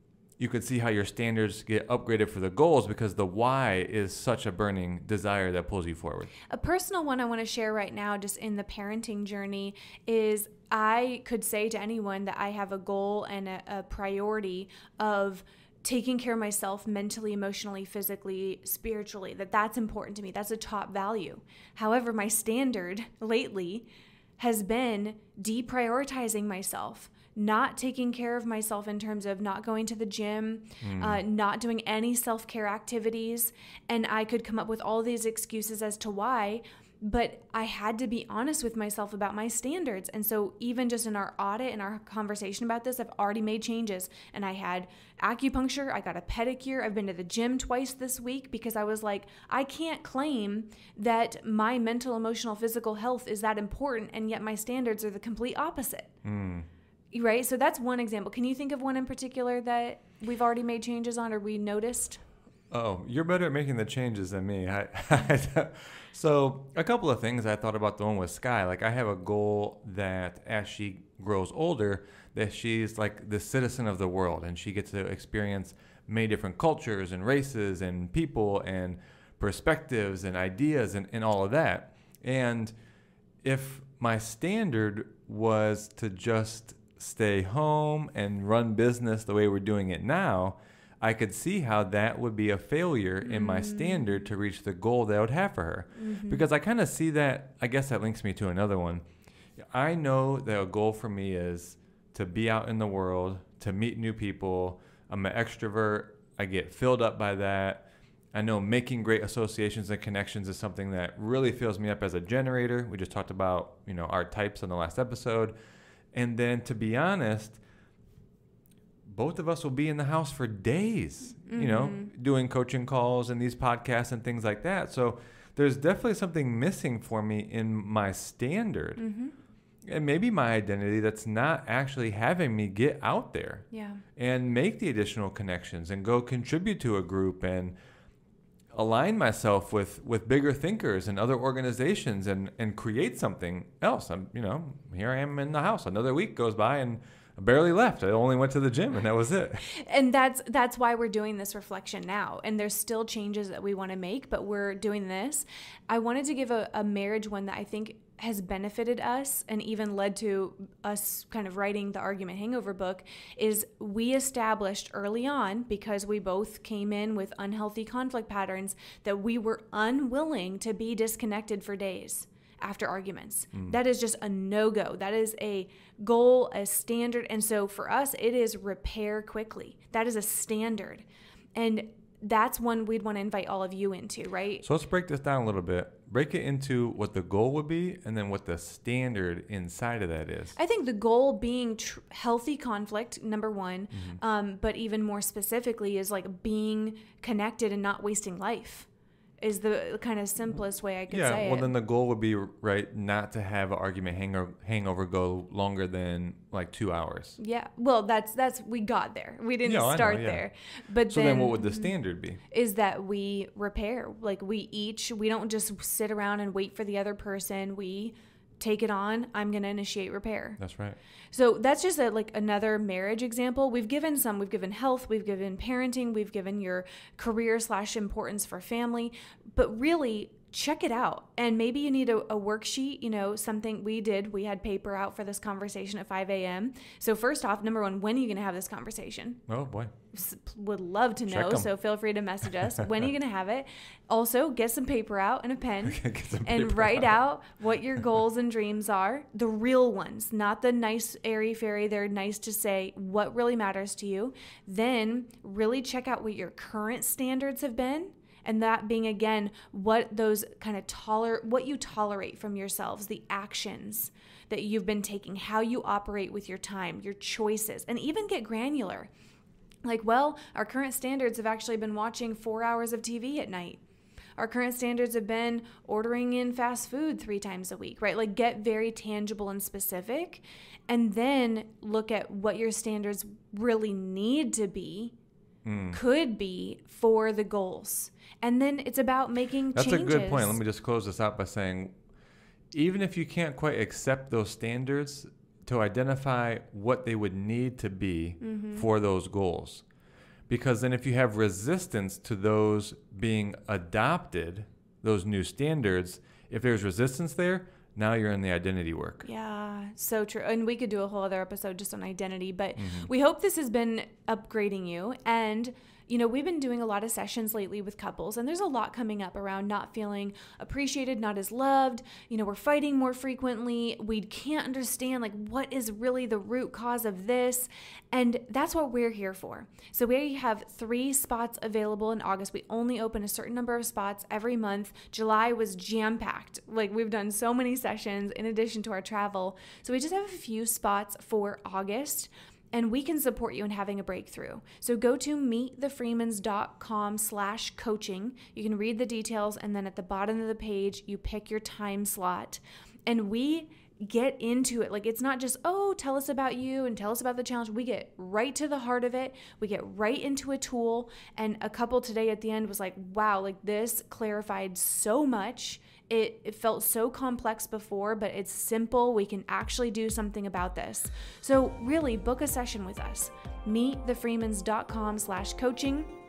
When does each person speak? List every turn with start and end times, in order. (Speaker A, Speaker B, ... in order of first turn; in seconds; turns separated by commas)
Speaker A: 0.4-6.3, Speaker B: 6.5-56.1, Speaker A: 30.8-31.2, Speaker A: 56.2-56.7, Speaker B: 57.1-62.2, Speaker A: 62.7-82.7, Speaker A: 83.4-99.0, Speaker B: 93.2-94.3, Speaker B: 96.0-96.5, Speaker A: 99.6-115.5, Speaker A: 116.1-117.6, Speaker A: 119.0-129.0, Speaker B: 121.5-122.1, Speaker B: 129.0-129.3, Speaker A: 129.9-137.8, Speaker B: 133.7-134.0, Speaker A: 138.7-149.7, Speaker B: 149.6-184.6, Speaker A: 184.6-190.6, Speaker B: 190.6-198.9, Speaker A: 193.9-194.2, Speaker B: 199.4-201.7, Speaker A: 201.1-207.4, Speaker B: 207.4-211.9, Speaker A: 209.6-210.4, Speaker A: 211.1-212.4, Speaker B: 212.5-220.6, Speaker A: 220.6-221.0, Speaker B: 221.3-239.4, Speaker A: 239.5-239.9, Speaker B: 240.1-269.1, Speaker A: 241.3-241.7, Speaker A: 245.8-247.2, Speaker B: 269.9-273.8, Speaker B: 274.4-285.1, Speaker A: 285.6-286.0, Speaker B: 285.9-290.6, Speaker A: 289.7-291.9, Speaker A: 292.7-299.8, Speaker B: 298.4-298.9, Speaker A: 300.5-309.3, Speaker B: 309.2-376.1, Speaker A: 312.8-313.1